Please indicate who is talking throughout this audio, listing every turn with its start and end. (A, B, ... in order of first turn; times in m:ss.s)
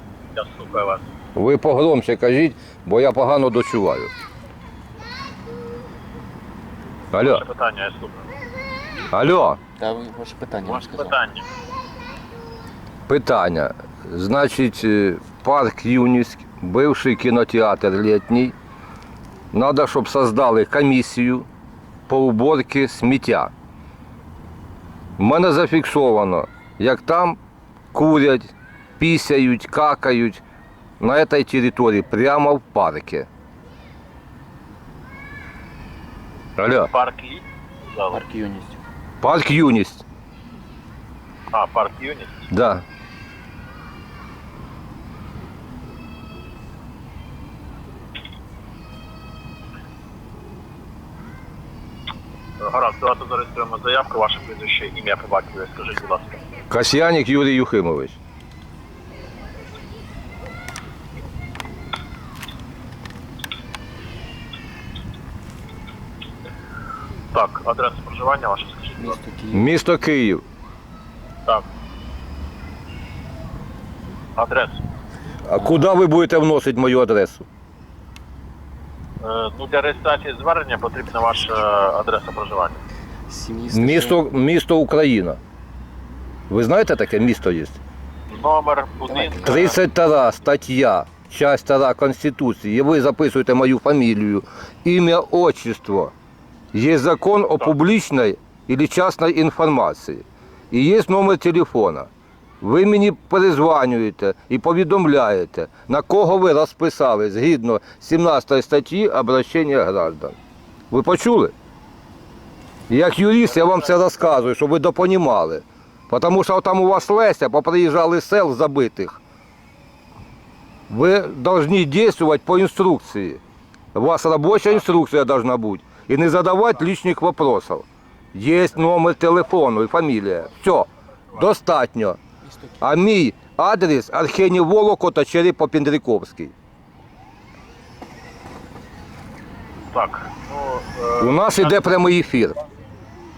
0:00.3-0:01.0 A
0:01.3-0:04.1 B
0:07.1-0:07.4 B
0:07.2-0:08.3 A
0:09.1-0:09.6 B
0:09.8-0:11.2 C
0:10.6-0:11.5 A
0:13.1-0:18.6 B
0:19.5-0:21.5 B
0:22.1-0:23.5 B
0:25.2-0:27.4 B
0:27.9-0:30.4 B
0:31.0-0:33.3 B
0:36.6-0:36.9 B
0:36.9-0:38.2 A
0:38.1-0:38.8 C
0:39.2-0:40.0 B
0:41.5-0:42.5 A
0:42.5-0:42.8 B
0:52.6-0:56.4 A
0:56.7-0:58.2 B
1:07.3-1:09.2 A
1:09.0-1:09.7 C
1:09.5-1:10.4 B
1:14.4-1:14.8 A
1:15.5-1:17.4 B
1:19.2-1:22.8 A
1:23.3-1:24.2 C
1:23.7-1:25.4 B
1:26.5-1:27.8 B
1:28.3-1:29.8 A
1:29.1-1:29.7 C
1:29.4-1:36.1 B
1:36.7-1:42.1 B
1:42.6-1:50.4 B
1:50.9-1:51.5 B
1:52.9-1:59.2 B
1:53.4-1:53.9 A
2:00.9-2:03.4 B
2:04.0-2:12.2 B
2:12.8-2:16.5 B
2:19.9-2:21.8 A
2:21.2-2:22.6 B